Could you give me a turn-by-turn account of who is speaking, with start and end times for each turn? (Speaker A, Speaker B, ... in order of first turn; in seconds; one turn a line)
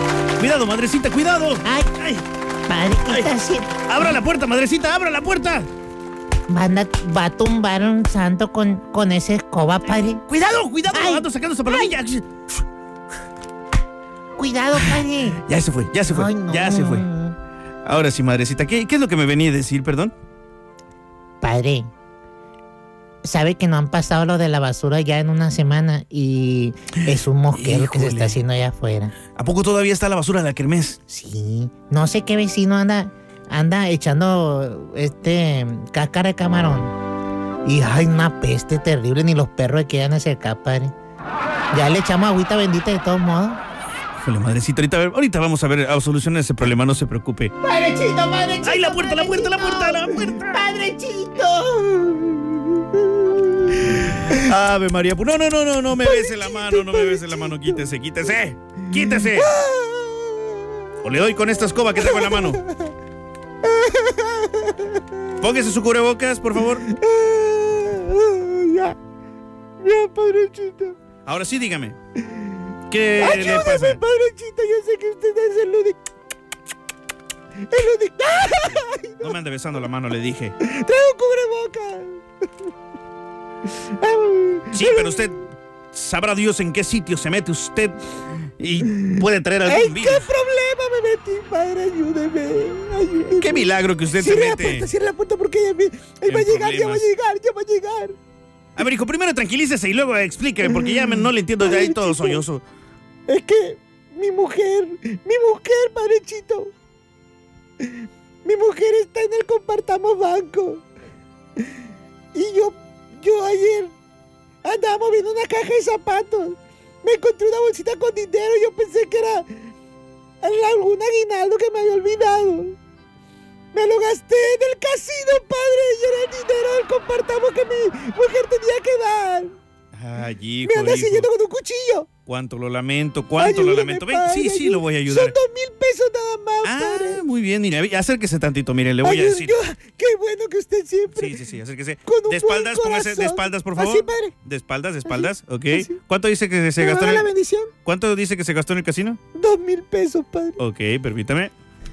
Speaker A: 0.4-2.2
Speaker B: 1.6-1.9
Speaker B: 2.7-4.2
Speaker A: 3.9-5.7
Speaker B: 6.5-10.2
Speaker A: 10.3-12.5
Speaker B: 10.9-11.9
Speaker B: 14.4-15.4
Speaker A: 14.7-17.1
Speaker B: 16.1-17.4
Speaker A: 17.8-20.1
Speaker B: 21.4-21.9
Speaker B: 23.2-29.1
Speaker A: 27.1-28.4
Speaker A: 29.3-31.0
Speaker B: 31.1-36.9
Speaker B: 37.6-40.9
Speaker B: 41.7-43.6
Speaker A: 44.2-47.5
Speaker B: 47.6-52.4
Speaker A: 48.6-50.6
Speaker A: 54.0-59.5
Speaker C: 56.0-57.9
Speaker C: 59.3-60.9
Speaker A: 61.0-62.6
Speaker C: 62.0-62.9
Speaker C: 63.6-65.2
Speaker A: 65.4-66.9
Speaker C: 66.7-69.0
Speaker C: 69.8-71.0
Speaker A: 71.2-72.0
Speaker A: 72.9-74.0
Speaker C: 73.2-76.0
Speaker C: 77.7-79.3
Speaker A: 78.7-80.5
Speaker C: 80.6-82.2
Speaker C: 83.8-85.3
Speaker A: 84.7-90.3
Speaker C: 89.1-98.2
Speaker A: 93.4-94.9
Speaker A: 96.3-97.1
Speaker A: 98.8-102.6
Speaker C: 101.6-102.4
Speaker C: 103.3-106.7
Speaker C: 108.4-110.8
Speaker C: 112.3-113.9
Speaker C: 114.6-119.5
Speaker C: 120.4-122.8
Speaker C: 123.7-129.6
Speaker A: 129.9-131.3
Speaker C: 130.6-132.1
Speaker A: 132.2-135.3
Speaker C: 133.3-137.2
Speaker A: 136.6-139.5
Speaker C: 139.0-141.4
Speaker A: 141.1-147.3
Speaker C: 142.1-144.3
Speaker C: 145.1-146.0
Speaker C: 146.8-147.7
Speaker A: 147.8-149.2
Speaker C: 149.3-150.6
Speaker A: 150.6-151.5